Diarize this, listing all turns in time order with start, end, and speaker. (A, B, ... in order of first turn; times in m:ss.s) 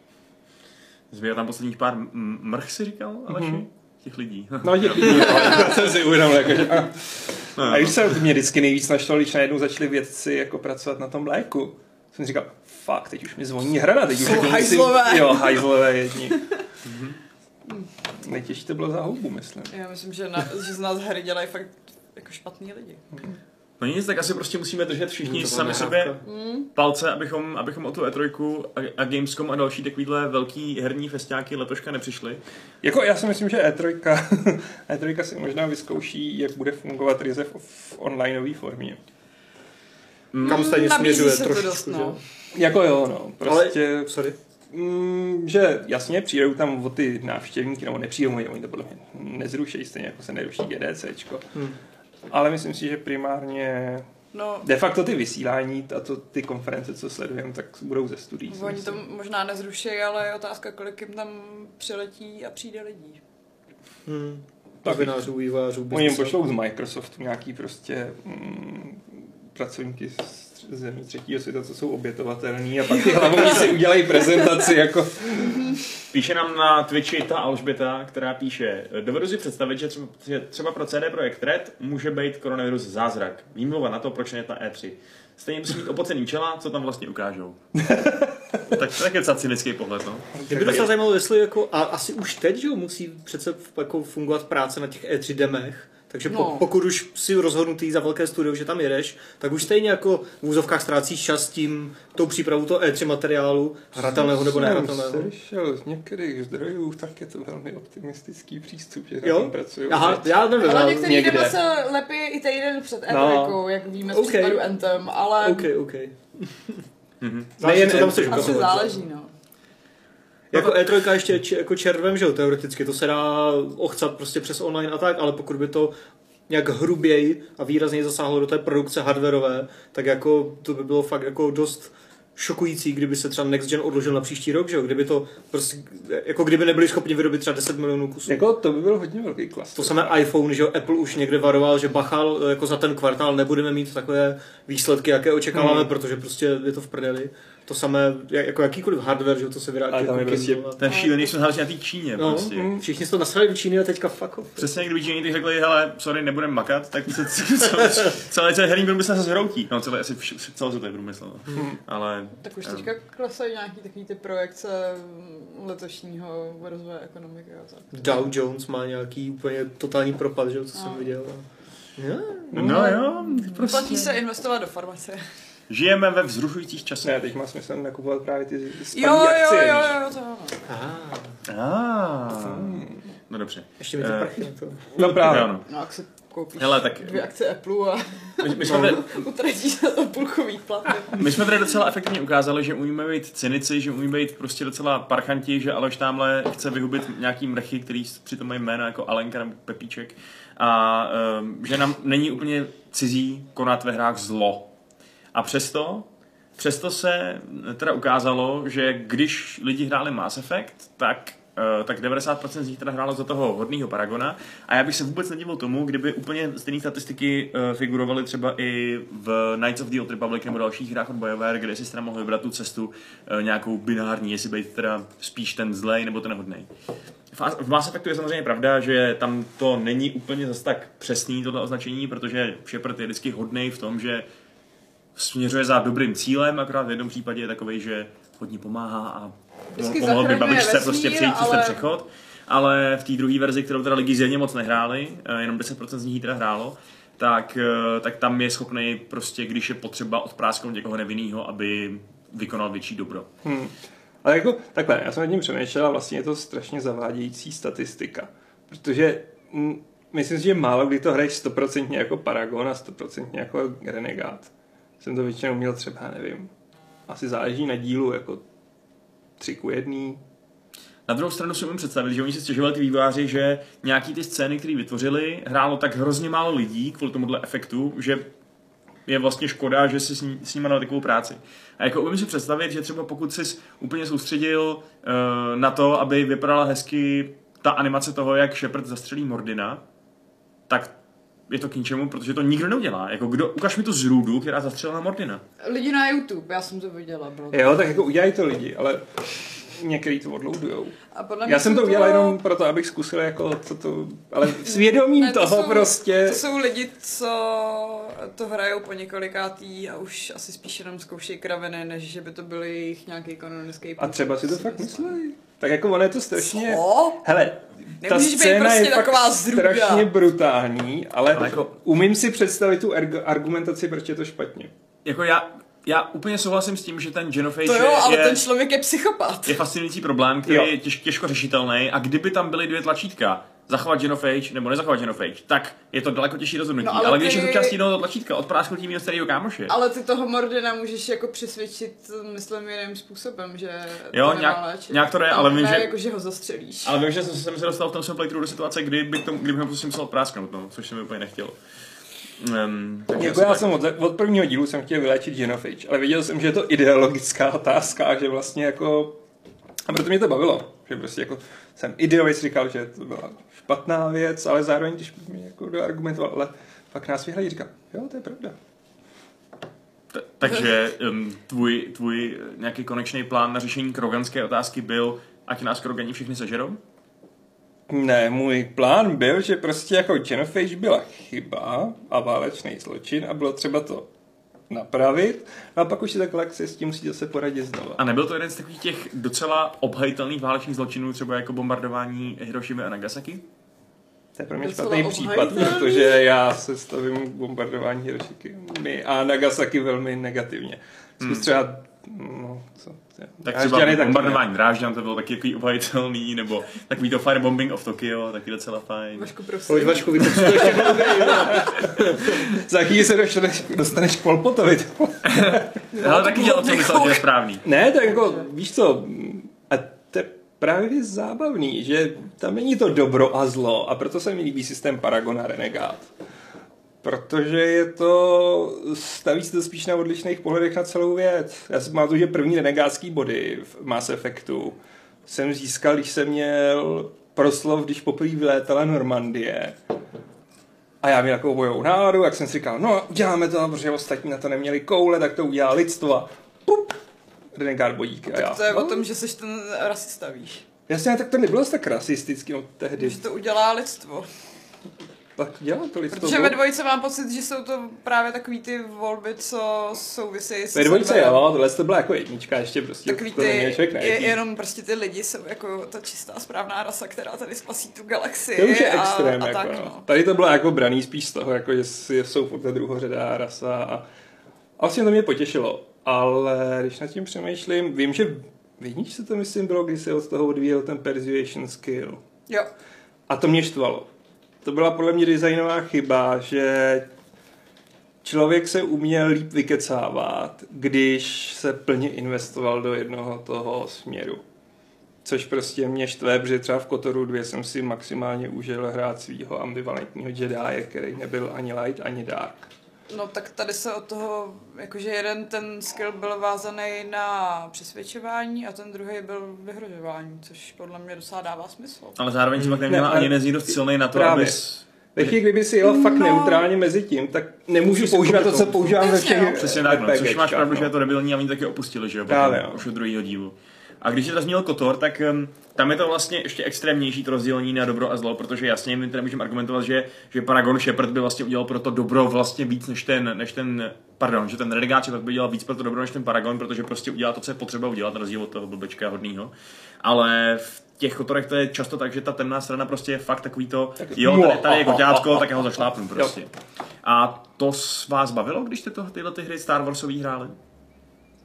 0:01.1-0:05.7 A
0:03.3-0:03.6 B
0:04.6-0:16.4 B
0:05.0-0:05.8 C
0:07.6-0:08.1 A
0:14.2-0:15.6 C
0:16.8-0:17.2 A
0:18.2-0:19.7 B
0:19.7-0:23.0 C
0:23.8-0:26.1 A
0:25.2-0:26.2 D
0:26.2-0:26.7 C
0:26.7-0:32.4 A
0:32.8-0:39.0 B
0:40.3-0:40.7 A
0:40.4-0:42.2 D
0:40.4-0:42.2 C
0:42.5-0:44.1 B
0:43.4-0:44.3 D
0:44.7-0:51.5 B
0:52.3-0:54.0 B
0:54.3-0:54.7 C
0:54.6-0:59.0 B
0:58.5-1:03.2 C
1:04.0-1:06.4 D
1:04.8-1:05.2 B
1:05.9-1:15.8 B
1:12.9-1:14.6 C
1:15.4-1:15.8 C
1:16.1-1:27.6 A
1:27.8-1:28.6 B
1:28.7-1:30.9 A
1:30.4-1:30.9 B
1:30.5-1:45.3 D
1:36.3-1:36.6 C
1:44.0-1:50.4 B
1:49.2-1:51.5 D
1:50.6-1:55.7 C
1:51.0-1:51.5 B
1:53.1-1:53.6 B
1:54.0-1:54.8 D
1:55.4-1:56.8 D
1:57.2-1:57.5 A
1:57.6-1:58.8 B
1:57.6-1:58.9 D
1:58.2-1:59.3 C
2:00.5-2:05.9 D
2:06.5-2:18.4 D
2:18.3-2:20.1 B
2:19.7-2:30.8 D
2:25.5-2:25.9 B
2:29.9-2:30.7 B
2:30.8-2:32.7 A
2:30.8-2:31.4 C
2:32.2-2:34.8 D
2:32.5-2:32.8 B
2:34.6-2:42.9 A
2:42.4-2:47.9 C
2:47.9-2:51.4 D
2:50.7-2:51.1 C
2:52.0-2:52.8 D
2:52.5-2:53.0 B
2:52.5-2:54.2 A
2:52.6-2:55.2 C
2:55.7-2:57.2 A
2:57.0-3:00.0 B
2:58.9-3:00.6 C
3:00.7-3:01.4 D
3:01.5-3:04.4 A
3:02.4-3:03.0 B
3:03.8-3:05.2 D
3:05.0-3:05.5 B
3:05.0-3:05.6 A
3:05.6-3:11.2 C
3:06.6-3:07.2 A
3:08.4-3:09.2 A
3:08.6-3:09.0 D
3:11.1-3:24.7 A
3:25.3-3:46.7 A
3:47.3-3:54.2 A
3:55.2-4:13.3 A
3:59.7-4:01.8 C
4:13.4-4:26.5 B
4:27.1-4:28.4 B
4:29.4-4:30.2 B
4:31.1-4:38.3 A
4:39.1-4:49.8 A
4:51.5-4:55.4 A
4:55.6-4:58.0 C
4:57.5-5:06.4 B
5:01.1-5:02.4 C
5:04.6-5:15.2 C
5:14.0-5:24.7 B
5:16.4-5:17.2 C
5:18.0-5:20.1 C
5:21.3-5:21.7 A
5:25.0-5:28.4 A
5:27.6-5:29.6 C
5:29.4-5:39.7 A
5:30.4-5:30.7 B
5:36.8-5:37.8 C
5:39.7-5:47.0 C
5:44.1-5:45.9 A
5:46.8-5:51.6 A
5:52.4-5:53.7 A
5:53.2-5:59.2 B
5:59.9-6:08.6 B
6:10.1-6:16.8 A
6:17.9-6:24.1 B
6:24.7-6:28.0 B
6:28.0-6:33.4 A
6:34.4-6:44.4 B
6:34.6-6:36.2 C
6:41.2-6:41.5 A
6:43.4-6:49.3 A
6:49.1-6:51.6 C
6:49.7-6:52.5 D
6:50.2-6:50.8 A
6:51.5-6:55.7 B
6:55.2-6:57.6 A
6:55.9-6:57.2 C
6:57.6-7:06.1 B
6:58.1-6:58.4 C
7:07.0-7:19.8 B
7:21.0-7:27.0 B
7:27.5-7:29.0 B
7:28.3-7:30.6 C
7:30.9-7:33.2 B
7:33.0-7:34.3 C
7:35.4-7:36.6 B
7:36.1-7:41.4 C
7:40.7-7:44.4 B
7:43.0-7:50.0 C
7:48.5-7:54.0 B
7:54.8-8:02.2 B
8:03.3-8:04.1 B
8:04.6-8:07.0 B
8:08.2-8:14.4 B
8:15.2-8:22.7 B
8:23.1-8:32.2 C
8:32.2-8:35.4 A
8:32.6-8:34.6 B
8:35.1-8:40.9 B
8:35.8-8:36.6 C
8:37.9-8:38.7 A
8:38.8-8:39.8 C
8:39.5-9:06.5 A
8:42.3-8:42.8 B
9:04.0-9:06.3 B
9:07.0-9:10.6 A